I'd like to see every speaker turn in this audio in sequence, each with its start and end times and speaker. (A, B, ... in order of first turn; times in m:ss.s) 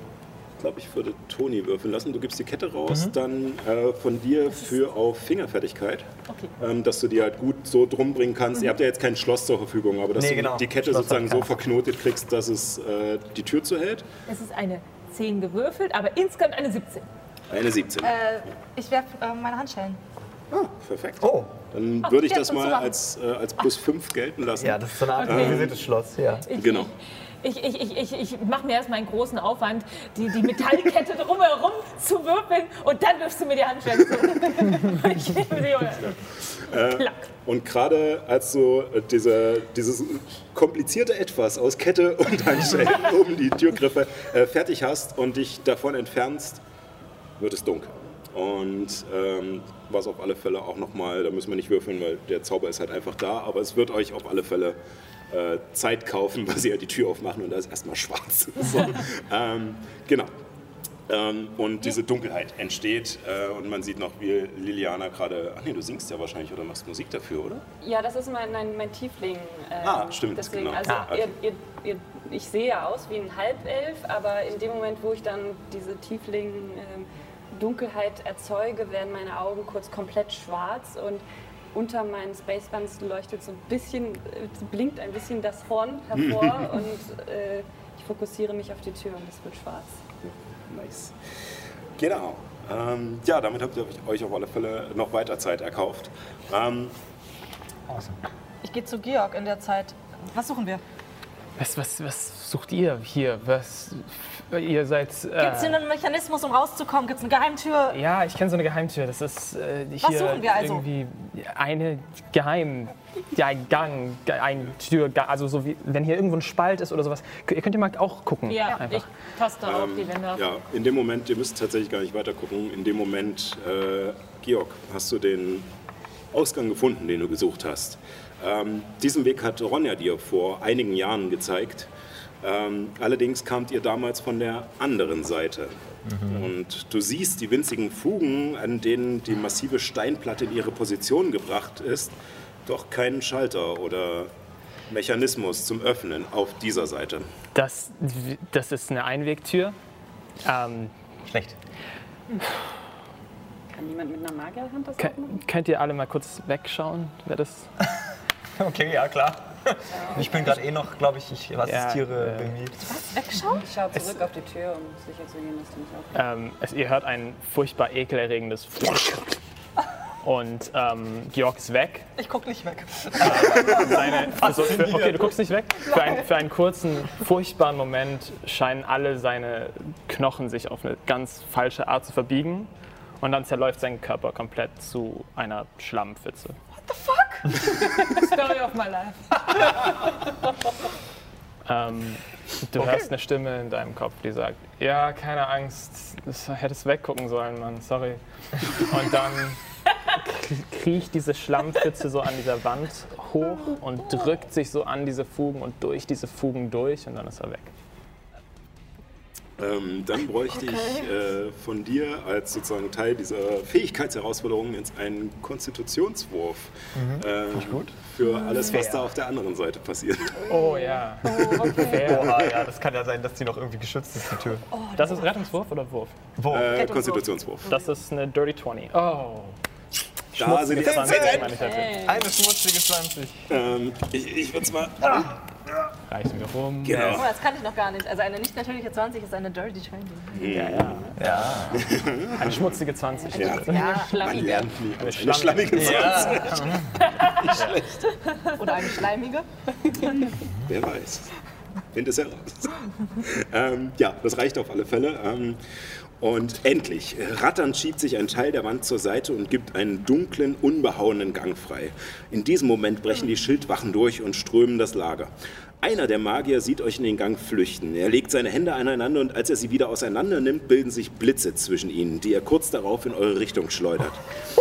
0:00.6-0:14.1 A
0:02.9-0:03.2 B
0:10.2-0:11.6 B
0:14.3-0:17.1 C
0:17.5-0:18.2 A
0:18.0-0:20.0 D
0:20.5-0:25.8 A
0:21.2-0:21.5 B
0:22.1-0:22.9 D
0:24.6-0:26.5 B
0:25.2-0:25.7 C
0:26.5-0:36.2 C
0:26.5-0:26.9 A
0:36.6-0:46.6 A
0:36.8-0:37.3 C
0:47.4-0:54.8 A
0:55.3-1:00.3 A
1:01.1-1:07.6 A
1:07.8-1:30.0 E
1:09.8-1:11.3 A
1:26.2-1:26.6 A
1:30.7-1:31.2 A
1:32.0-1:36.9 A
1:37.9-1:38.2 B
1:38.6-1:40.8 D
1:41.6-1:45.8 F
1:45.4-1:48.0 D
1:47.9-1:59.1 F
1:50.0-1:50.9 D
1:58.4-2:00.5 C
1:59.6-2:05.7 A
2:06.3-2:11.9 A
2:12.4-2:22.1 A
2:16.1-2:16.4 B
2:22.7-2:24.3 A
2:24.9-2:27.3 A
2:27.6-2:29.8 F
2:30.4-2:30.9 F
2:31.3-2:31.6 B
2:33.7-2:35.4 E
2:35.0-2:37.7 F
2:38.6-2:42.8 B
2:39.9-2:40.6 E
2:41.6-2:42.6 F
2:42.8-2:43.6 D
2:43.4-2:46.2 E
2:46.2-2:49.4 F
2:50.2-2:52.1 F
2:52.2-2:54.5 D
2:53.2-3:02.7 F
2:54.4-2:55.3 B
2:55.8-2:56.3 D
3:03.2-3:06.6 F
3:06.8-3:07.8 D
3:08.0-3:09.8 C
3:11.6-3:19.6 F
3:20.1-3:27.7 F
3:29.6-3:40.4 A
3:30.5-3:31.1 D
3:37.0-3:37.9 B
3:38.2-3:38.9 D
3:38.6-3:39.0 F
3:40.5-3:41.9 E
3:40.5-3:42.7 F
3:41.3-3:42.1 D
3:41.7-3:44.6 B
3:44.7-3:45.3 D
3:45.0-3:46.2 F
3:46.4-3:46.7 B
3:46.5-3:47.7 A
3:46.7-3:47.9 D
3:47.7-3:49.6 F
3:50.3-3:52.2 F
3:50.4-3:51.5 A
3:51.4-3:52.2 E
3:52.0-3:53.5 B
3:53.5-3:55.3 A
3:56.1-3:57.3 F
3:56.8-3:57.3 A
3:57.1-4:00.6 D
4:00.3-4:01.1 A
4:00.4-4:01.3 F
4:01.2-4:01.9 B
4:01.7-4:02.7 A
4:02.2-4:06.8 F
4:03.2-4:03.6 E
4:03.3-4:06.8 A
4:03.4-4:04.7 D
4:03.7-4:04.7 C
4:05.7-4:06.9 B
4:06.8-4:07.6 C
4:07.3-4:08.0 A
4:07.5-4:07.9 F
4:08.6-4:10.2 D
4:10.7-4:11.3 A
4:11.9-4:15.6 A
4:16.2-4:34.4 A